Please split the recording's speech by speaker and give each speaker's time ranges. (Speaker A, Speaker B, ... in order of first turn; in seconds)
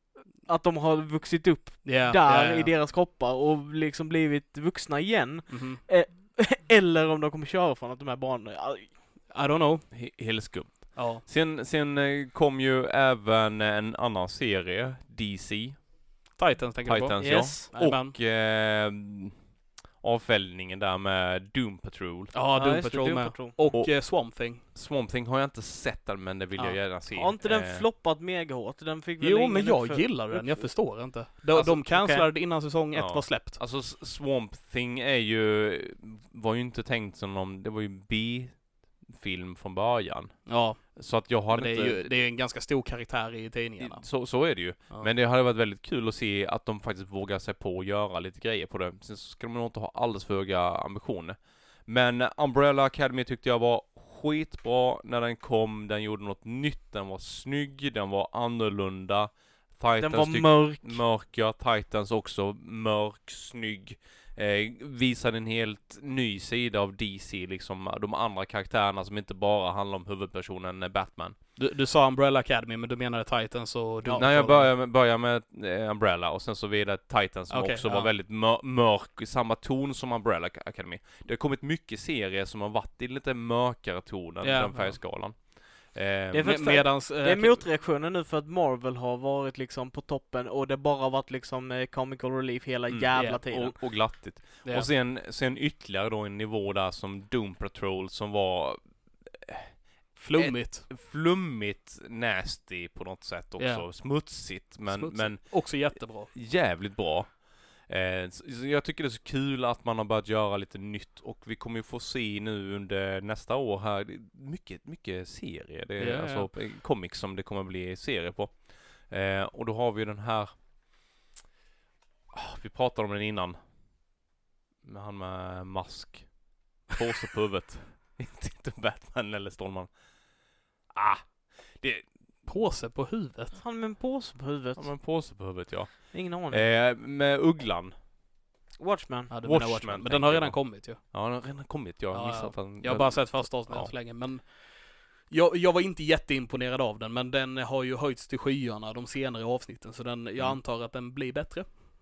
Speaker A: 0.4-9.3, 17.2-17.7, 22.5-23.6, 27.1-32.3, 60.0-61.0, 74.0-74.5, 86.3-93.8, 133.5-135.6, 136.1-136.6, 138.8-139.3
Speaker B: 1.8-2.7, 5.5-5.8, 9.3-10.4, 10.9-11.2, 16.4-18.1, 22.3-24.6, 26.6-26.8, 29.2-33.6, 40.5-45.1, 71.6-74.7, 77.5-78.1, 84.4-85.0, 86.4-87.7, 93.2-94.1, 100.2-100.9, 103.6-106.3, 116.0-116.5, 132.4-133.6, 139.3-141.6, 142.1-151.8
Speaker C: 9.9-16.1, 16.9-22.3, 23.7-27.9, 32.9-42.0, 43.8-71.4, 74.2-86.8, 92.9-120.8, 122.3-123.8, 124.8-132.4, 134.8-138.0, 139.4-144.0, 150.4-150.6